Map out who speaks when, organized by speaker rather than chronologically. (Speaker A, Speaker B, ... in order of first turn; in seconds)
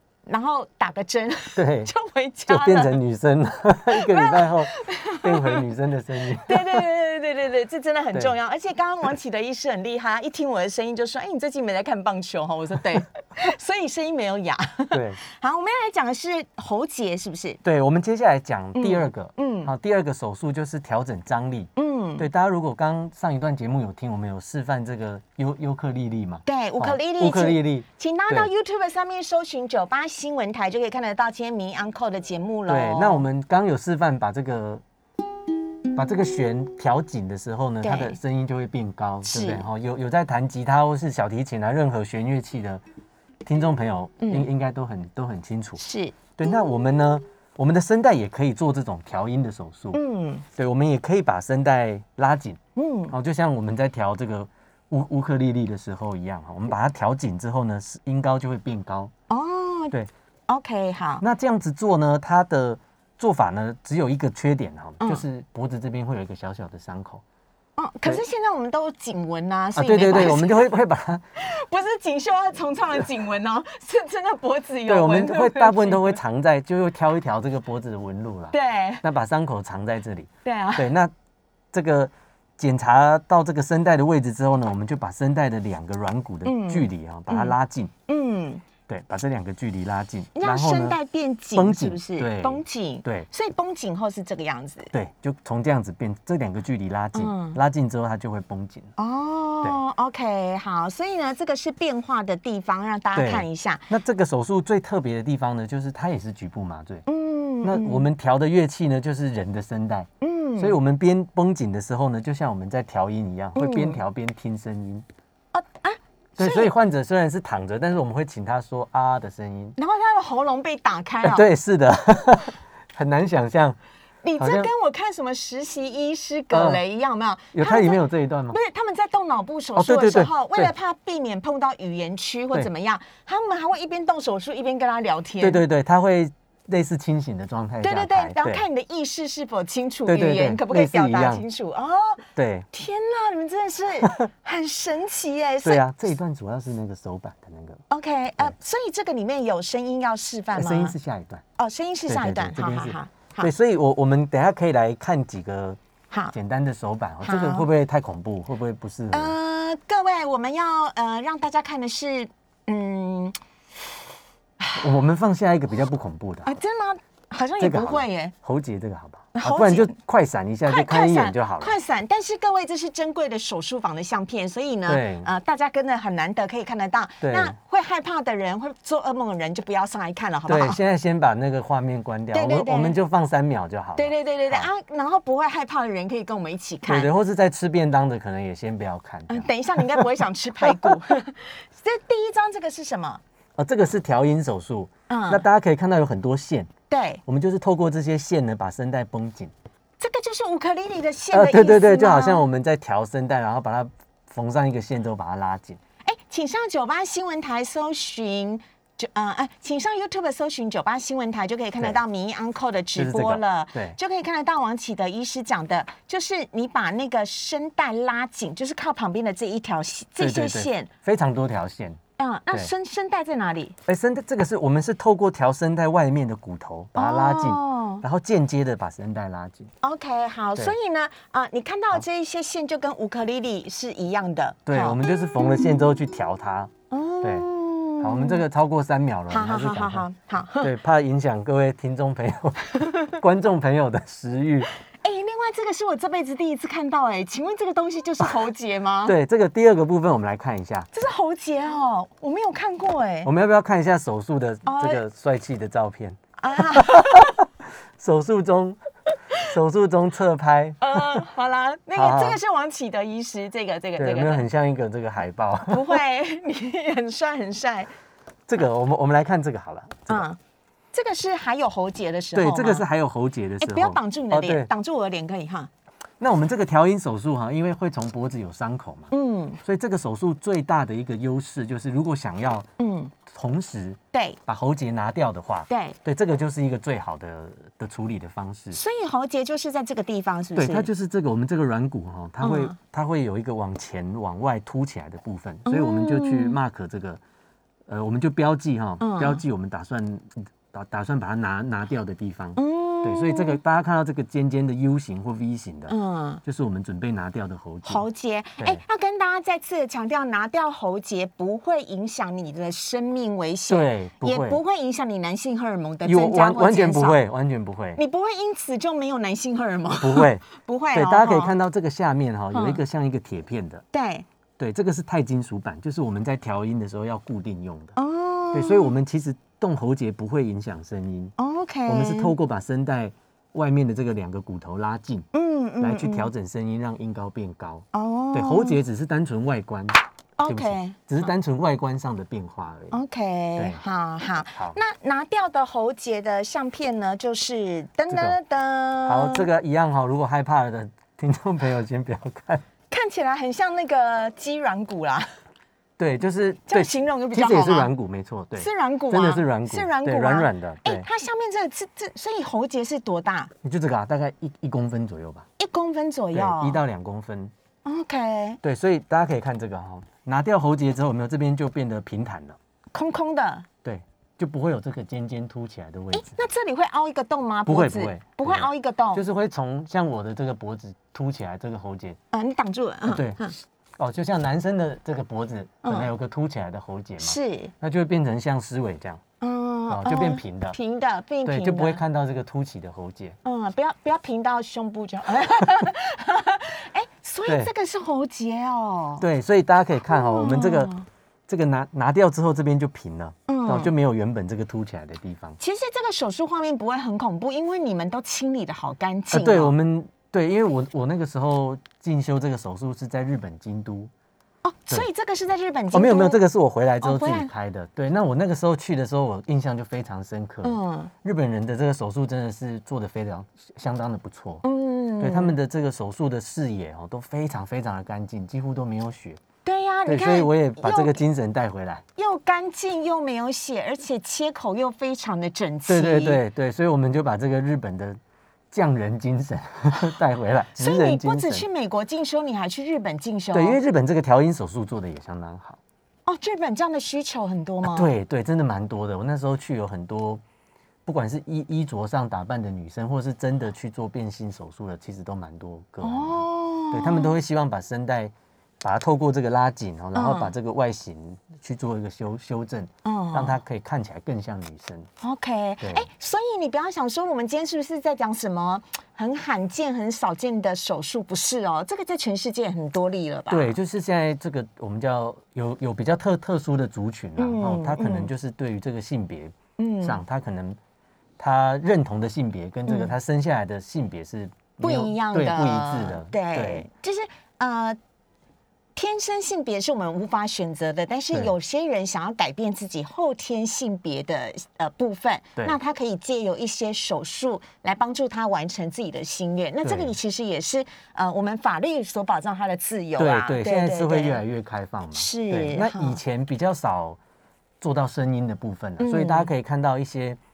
Speaker A: 0.2-3.0, 3.9-5.6, 6.3-17.6, 18.7-19.7, 21.8-22.3, 26.4-33.2, 37.8-38.2, 39.2-39.7, 44.2-44.5, 45.8-46.3, 49.9-50.4, 52.8-53.1, 59.3-59.9, 60.5-61.2, 67.8-70.7, 71.4-76.2, 78.5-79.0, 80.4-80.9, 86.4-87.5, 88.1-88.6, 90.3-94.9, 97.1-97.6, 99.0-103.9, 107.1-108.0, 110.2-110.8, 113.5-114.0, 115.5-116.7, 119.8-121.5, 124.2-135.6, 137.8-145.8, 147.9-150.9, 151.6-153.5, 157.2-157.7, 159.1-163.4, 166.4-168.3, 169.3-169.9, 170.7-180.8, 182.3-183.0, 183.9-187.1, 189.3-193.2, 195.1-195.4, 196.9-197.2, 200.0-202.4, 206.0-220.9, 222.2-223.8, 226.9-228.0, 229.8-235.9, 236.9-238.4, 239.3-240.7, 245.0-249.1, 250.9-253.3, 254.7-255.0, 256.4-257.4, 260.8-264.4, 265.7-267.9, 270.1-270.4, 270.9-272.8, 273.6-275.7, 279.1-279.6, 282.8-283.1, 284.1-284.4, 285.7-286.0, 288.7-290.9, 292.4-292.8, 295.6-296.6, 299.0-299.4, 302.6-303.6, 305.9-306.4, 307.8-317.2, 318.0-321.6, 322.5-322.8, 323.9-324.2, 327.9-328.9, 331.4-332.3, 335.3-336.3, 337.9-338.8, 340.4-341.3, 342.9-349.5, 352.9-355.3, 356.7-357.9, 358.6-363.5, 365.6-366.8, 367.8-368.6, 372.9-373.7, 376.1-379.2, 382.3-383.5, 385.8-386.1, 387.2-387.7, 389.4-392.0, 393.4-399.2, 400.1-401.1, 403.5-403.9, 405.6-409.7, 414.6-416.4, 417.0-417.5, 420.6-421.1, 424.6-425.5, 429.6-431.2, 432.2-436.4, 440.8-443.8, 446.2-448.1, 456.0-457.3, 460.1-460.5, 463.0-463.6, 465.2-473.7, 477.4-478.3, 479.8-480.2, 482.9-483.1, 484.8-488.0, 488.9-504.4, 505.1-506.2, 509.0-509.5
Speaker B: 1.5-1.9, 2.5-6.8, 14.9-15.2, 17.6-28.5, 32.7-34.8, 35.9-42.8, 43.4-45.8, 46.4-50.0, 50.5-59.1, 61.2-67.2, 69.7-71.2, 74.9-81.1, 81.7-87.9, 88.9-91.0, 91.5-93.3, 94.9-98.9, 103.1-107.0, 107.6-115.0, 116.4-119.8, 121.2-123.8, 124.4-124.7, 126.5-126.8, 127.5-128.6, 129.8-130.7, 135.4-138.6, 140.1-141.4, 142.3-142.7, 144.0-144.3, 145.6-147.8, 150.5-151.4, 152.1-155.8, 156.3-159.3, 164.8-166.6, 167.6-171.8, 174.9-175.3, 177.2-177.6, 180.5-184.7, 186.8-190.1, 190.6-191.0, 193.6-196.7, 197.2-199.5, 201.3-205.8, 212.9-214.0, 220.2-222.0, 223.9-229.7, 234.7-237.5, 238.0-240.1, 240.6-244.7, 249.1-250.9, 253.2-258.8, 259.4-261.2, 261.9-262.4, 264.0-266.0, 268.5-270.2, 272.3-274.7, 276.2-282.7, 283.3-288.8, 290.5-297.2, 297.9-308.0, 313.7-314.6, 316.0-318.0, 320.0-323.8, 324.6-327.9, 328.5-331.3, 331.9-335.3, 335.8-342.9, 348.1-348.4, 349.0-352.6, 356.0-361.1, 363.6-365.5, 366.3-367.5, 368.6-372.6, 373.8-376.4, 377.6-382.2, 383.1-383.4, 384.0-389.2, 389.9-390.8, 391.4-393.4, 397.4-397.7, 399.2-400.9, 401.5-405.6, 409.3-414.1, 415.9-424.6, 425.2-429.4, 430.1-432.0, 435.9-438.2, 438.7-441.6, 443.5-445.8, 447.8-450.4, 451.1-465.1, 465.8-466.1, 473.5-480.8, 481.4-486.9, 499.8-500.1, 503.2-507.2, 507.8-510.4